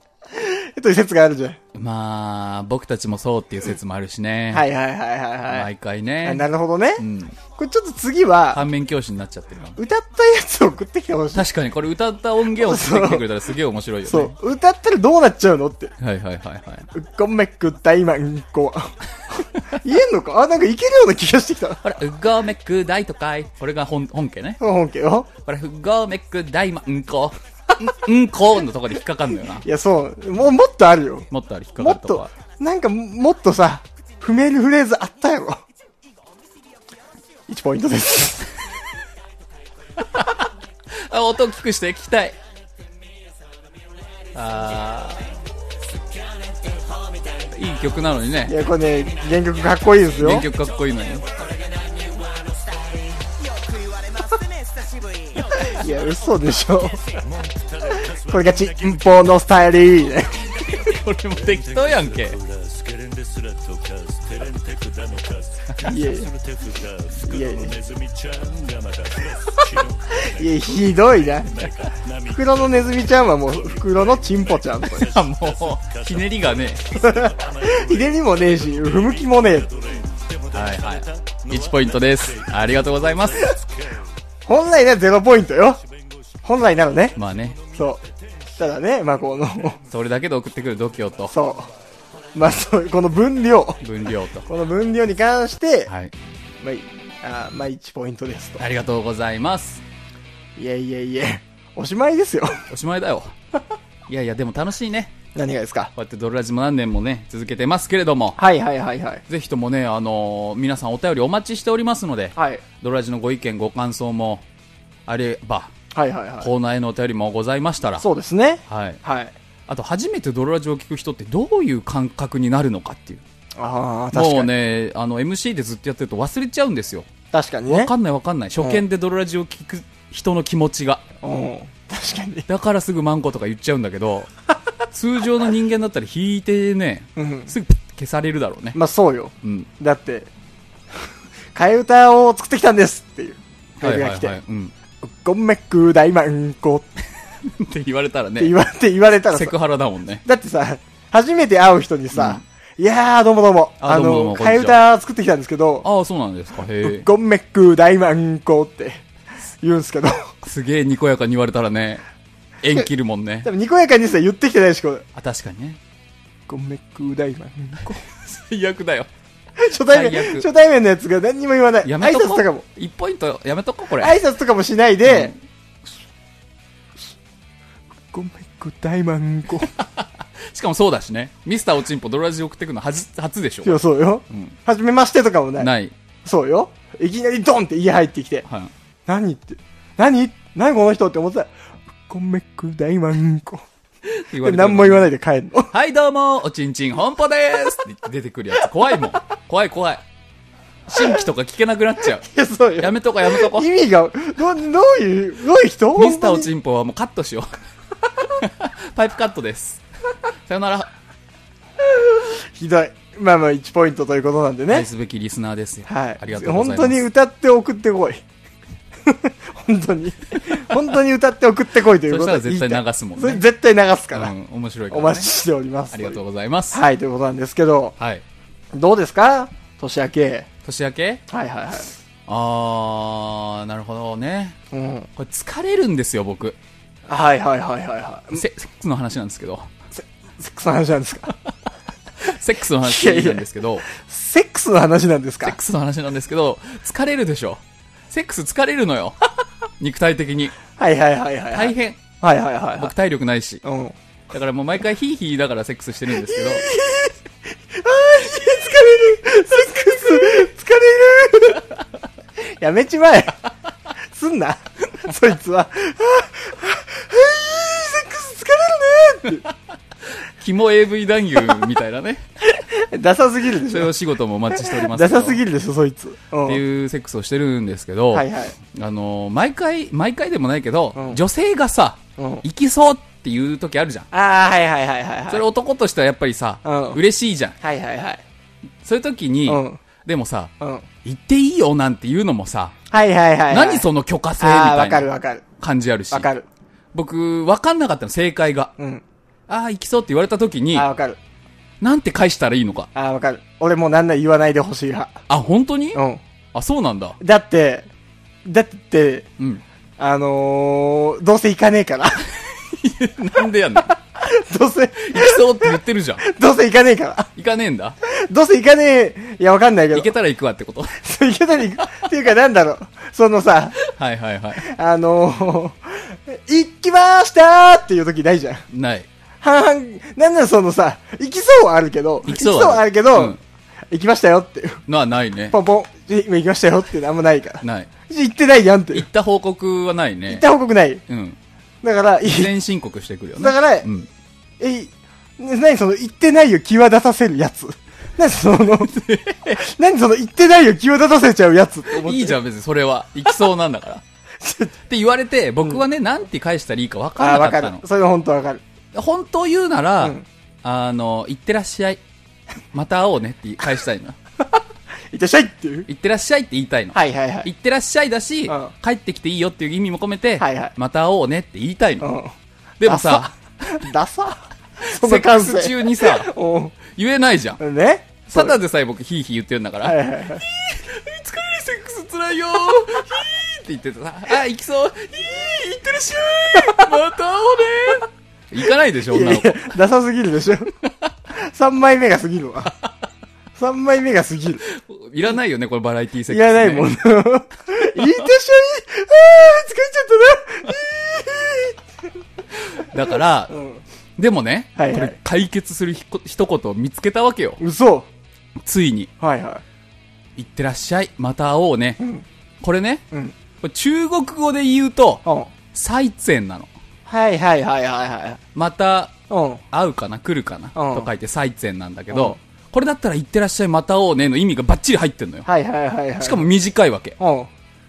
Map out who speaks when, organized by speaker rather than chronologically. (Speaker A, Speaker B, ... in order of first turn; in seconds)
Speaker A: 0.3-1.6, 4.5-5.7, 6.2-8.6, 9.8-11.5, 12.6-13.2, 14.1-15.9, 16.9-21.8, 24.6-25.3, 29.6-31.3, 31.8-35.6, 37.5-38.5, 48.5-50.5, 55.5-57.1, 57.9-60.5, 65.8-66.3, 67.2-67.8, 69.4-71.7, 72.3-75.2, 77.0-79.7, 84.5-85.8, 86.4-87.2, 87.7-88.0, 88.6-89.8, 91.3-91.7, 92.3-93.8, 94.5-95.9, 96.6-98.6, 100.6-102.7, 105.3-105.9, 108.4-109.2, 112.4-112.6, 115.9-116.5, 118.0-119.3, 123.6-124.5, 127.3-127.9, 131.2-132.5, 137.2-137.5, 138.8-140.3, 141.6-144.4, 145.0-146.9, 148.4-149.6, 150.2-155.9, 156.8-159.0, 159.6-160.3, 163.4-165.1, 166.5-168.0, 169.6-172.6, 174.0-175.3, 178.1-179.7, 183.6-185.7, 186.2-188.5, 189.1-191.5, 192.1-193.7, 194.4-195.7, 202.2-206.5, 211.9-214.9, 215.9-218.2, 219.1-224.3, 224.9-226.2, 226.7-227.9, 228.7-230.5, 231.3-231.9, 234.7-235.1, 237.1-238.4, 240.0-241.3, 242.8-245.6, 250.8-252.9, 253.6-254.0, 256.1-257.1, 257.7-261.7, 262.4-263.4, 264.1-269.4, 272.4-273.9, 274.5-276.6, 278.1-278.6, 280.9-281.2, 282.2-282.4, 284.1-285.4, 286.6-287.0, 287.6-288.2, 289.5-289.8, 290.6-290.9, 292.9-293.9, 294.4-295.4, 296.1-296.5, 298.8-299.0, 300.7-301.2, 302.9-305.2, 305.9-306.2, 307.2-307.9, 308.4-309.3, 310.0-312.3, 314.1-317.3, 318.0-320.1, 321.0-323.8, 324.6-328.6, 329.4-333.4, 333.9-334.8, 335.5-339.1, 340.3-341.0, 341.8-342.5, 343.4-343.9, 344.6-349.0, 349.5-352.4, 354.4-354.7, 357.2-358.6, 360.0-360.3, 365.1-365.9, 366.9-367.5, 368.5-368.7, 370.4-370.7, 372.0-372.3, 372.9-376.8, 377.6-378.6, 379.8-380.4, 386.5-386.9, 389.1-390.7, 391.3-392.8, 393.6-394.6, 396.3-401.8, 403.5-403.8, 404.8-405.2, 407.6-408.1, 409.2-409.6, 412.0-412.2, 415.2-415.5, 417.1-418.4, 419.3-419.6, 420.8-421.1, 422.1-422.4, 425.5-426.5, 427.2-427.5
Speaker B: 1.7-4.7, 5.5-6.5, 7.0-7.4, 8.5-9.8, 11.3-14.3, 16.0-16.9, 21.8-24.6, 25.5-29.6, 31.3-32.3, 40.0-42.4, 44.3-45.3, 47.3-48.6, 50.2-51.3, 60.6-62.4, 74.9-77.0, 80.5-83.5, 87.2-87.6, 89.9-91.3, 93.8-94.5, 95.9-96.1, 98.6-99.8, 102.7-103.3, 104.1-105.1, 106.0-108.4, 109.3-114.4, 115.1-115.7, 116.4-118.0, 118.7-119.0, 119.7-123.2, 124.1-127.1, 127.7-131.0, 132.5-134.3, 134.9-138.8, 139.4-139.7, 143.8-144.7, 147.4-148.6, 149.3-150.2, 152.1-152.4, 153.8-154.8, 155.8-157.1, 160.4-162.0, 162.6-163.5, 165.2-165.8, 167.9-169.1, 169.9-170.5, 171.8-174.2, 175.0-175.3, 179.6-184.6, 185.6-185.9, 188.5-188.7, 194.2-195.1, 195.7-200.0, 200.9-202.3, 202.8-203.7, 206.0-207.5, 208.3-209.8, 210.5-210.9, 214.7-217.0, 222.1-223.4, 224.1-225.3, 225.9-226.8, 228.0-228.2, 230.6-231.2, 232.3-234.6, 235.2-236.6, 238.3-239.7, 242.2-243.9, 245.4-249.2, 249.8-250.6, 251.5-252.0, 252.8-253.6, 254.3-256.7, 270.4-272.2, 273.6-275.4, 276.4-284.1, 285.3-287.6, 288.8-290.5, 291.0-292.8, 293.5-295.1, 295.6-296.3, 296.9-298.7, 299.5-300.9, 301.8-302.9, 305.3-306.0, 306.5-307.2, 312.5-313.9, 315.0-316.2, 317.4-318.0, 319.9-321.0, 323.8-324.6, 328.7-329.1, 332.2-333.4, 334.9-335.6, 337.6-337.9, 338.9-340.5, 341.1-341.4, 342.2-344.1, 348.8-349.6, 351.9-354.0, 354.9-357.8, 358.9-362.0, 362.7-364.2, 365.9-372.1, 372.8-373.3, 374.8-376.3, 376.9-377.6, 378.3-389.7, 394.7-396.9, 402.7-403.5, 404.2-407.6, 408.6-409.1, 410.4-412.0, 412.6-413.0, 413.6-415.2, 415.7-416.7, 418.6-419.1, 419.7-425.5, 426.2-427.2